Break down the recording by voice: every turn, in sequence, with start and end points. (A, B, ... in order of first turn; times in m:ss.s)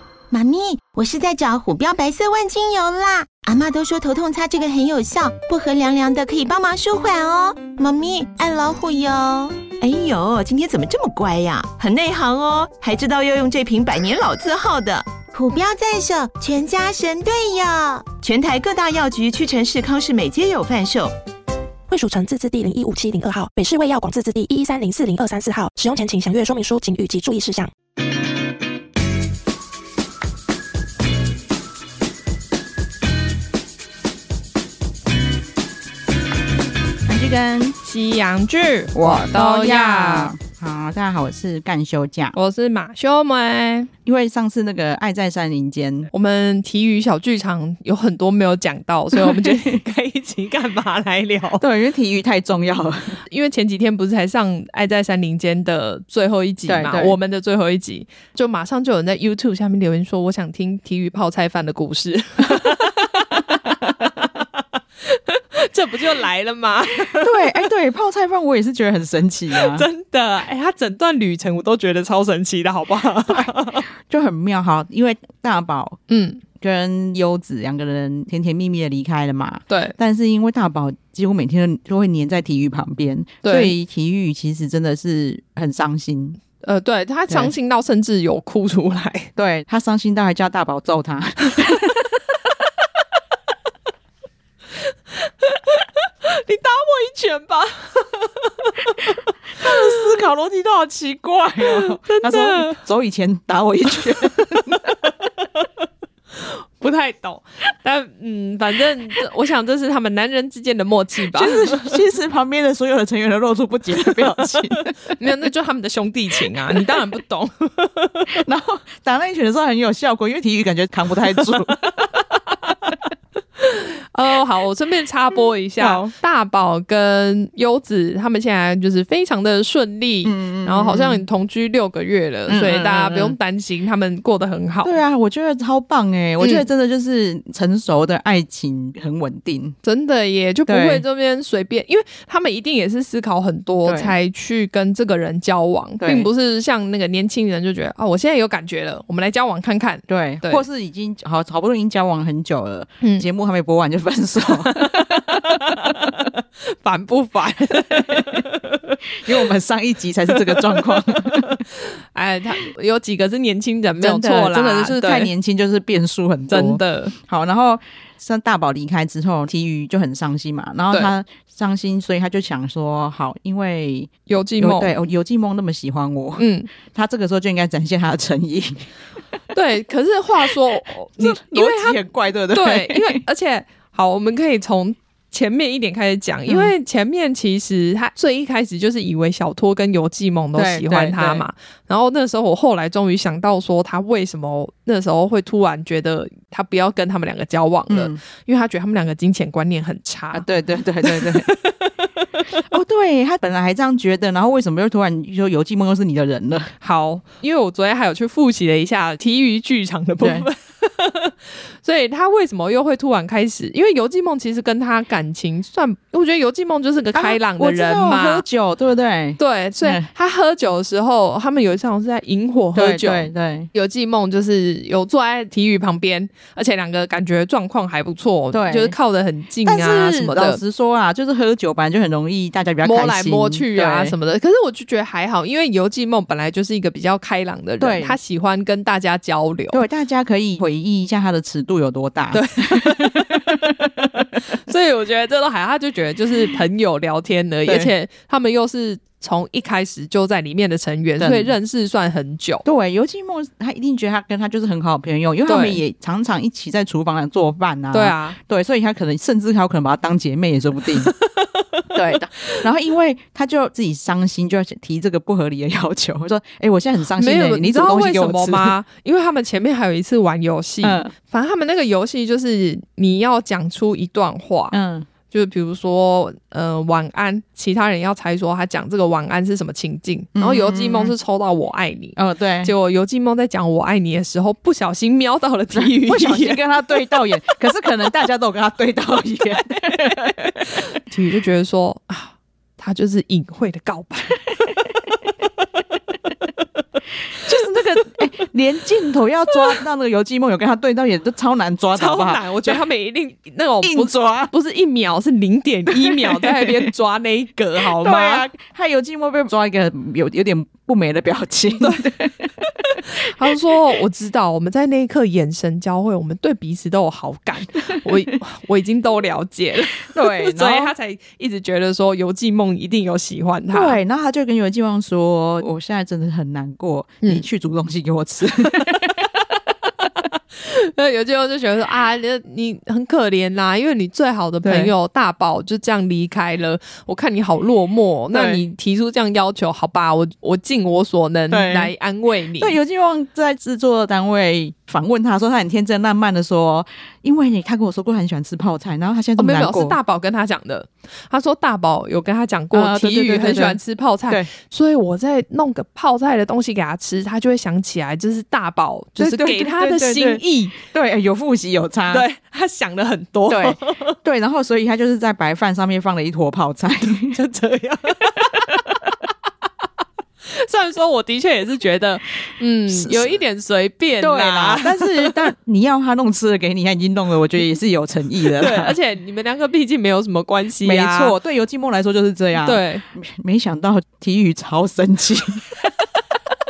0:00.3-0:09.7 A
0:09.8-0:15.2 B
0:15.3-0:18.2 A
0:18.2-0:21.1 B
0:21.9-0:27.7 C
0:37.0-0:37.8 D
0:37.8-0:40.3 E
0:38.9-0:42.4 D
0:42.3-0:43.9 E
0:44.1-0:46.1 D
0:46.1-0:51.6 E
0:49.2-0:49.7 D
0:51.6-0:53.2 D
0:53.3-1:04.4 E
0:56.7-0:57.2 D
1:05.0-1:07.6 E
1:07.2-1:09.9 D
1:09.6-1:13.9 E
1:14.1-1:16.0 D
1:16.1-1:16.4 E
1:16.6-1:26.4 D
1:19.7-1:20.0 E
1:23.4-1:23.7 E
1:26.6-1:29.3 E
1:29.4-1:31.9 D
1:35.1-1:39.8 E
1:39.6-1:44.9 D
1:41.6-1:42.8 E
1:46.4-1:52.0 E
1:51.3-1:55.0 D
1:55.1-1:58.4 E
1:58.3-2:02.1 D
2:03.6-2:14.9 E
2:05.8-2:06.1 D
2:10.2-2:11.2 D
2:12.5-2:13.4 D
2:14.8-2:19.8 D
2:16.4-2:16.7 E
2:19.8-2:30.6 E
2:20.7-2:21.0 D
2:23.8-2:24.1 D
2:26.0-2:26.3 D
2:30.1-2:36.1 D
2:33.0-2:33.3 E
2:34.5-2:39.0 E
2:37.9-2:38.4 D
2:39.2-2:41.6 D
2:40.5-2:41.6 E
2:42.1-2:45.3 E
2:44.0-2:58.9 D
2:46.5-2:47.1 E
2:54.3-2:54.9 E
2:56.4-2:56.7 E
2:59.5-3:20.5 E
3:01.2-3:03.2 D
3:10.6-3:11.4 D
3:17.9-3:18.2 D
3:20.3-3:21.5 D
3:21.0-3:22.5 E
3:22.7-3:26.7 D
3:26.8-3:38.4 E
3:30.2-3:30.5 D
3:37.2-3:40.1 D
3:39.4-3:50.6 E
3:42.7-3:43.7 D
3:48.5-3:49.0 D
3:49.6-3:54.1 D
3:52.8-3:59.8 E
3:57.8-3:58.2 D
3:59.7-4:04.2 D
4:02.3-4:03.5 E
4:04.4-4:12.6 E
4:11.2-4:11.5 D
4:12.6-4:21.1 D
4:15.5-4:15.8 E
4:17.9-4:18.4 E
4:21.4-4:21.8 E
4:21.9-4:28.8 D
4:27.2-4:34.8 E
4:30.8-4:31.1 D
4:34.7-4:35.1 D
4:35.3-4:46.6 E
4:40.4-4:41.1 D
4:42.2-4:42.7 D
4:45.7-4:50.7 D
4:51.0-4:54.4 E
4:57.4-5:02.8 D
5:02.0-5:08.5 E
5:03.8-5:04.5 D
5:05.9-5:06.9 D
5:07.8-5:13.4 D
5:11.8-5:12.1 E
5:13.0-5:24.0 E
5:20.0-5:20.9 D
5:23.7-5:29.2 D
5:30.6-5:42.8 E
5:34.6-5:34.9 D
5:38.3-5:38.6 D
5:41.5-5:41.9 D
5:42.6-5:50.0 D
5:49.4-6:00.8 E
5:52.7-5:54.5 D
5:59.2-6:02.2 D
6:02.1-6:04.2 E
6:03.5-6:07.4 D
6:07.3-6:08.6 E
6:10.5-6:15.4 E
6:12.9-6:13.3 D
6:14.2-6:19.0 D
6:18.5-6:21.4 E
6:20.8-6:25.7 D
6:22.6-6:23.0 E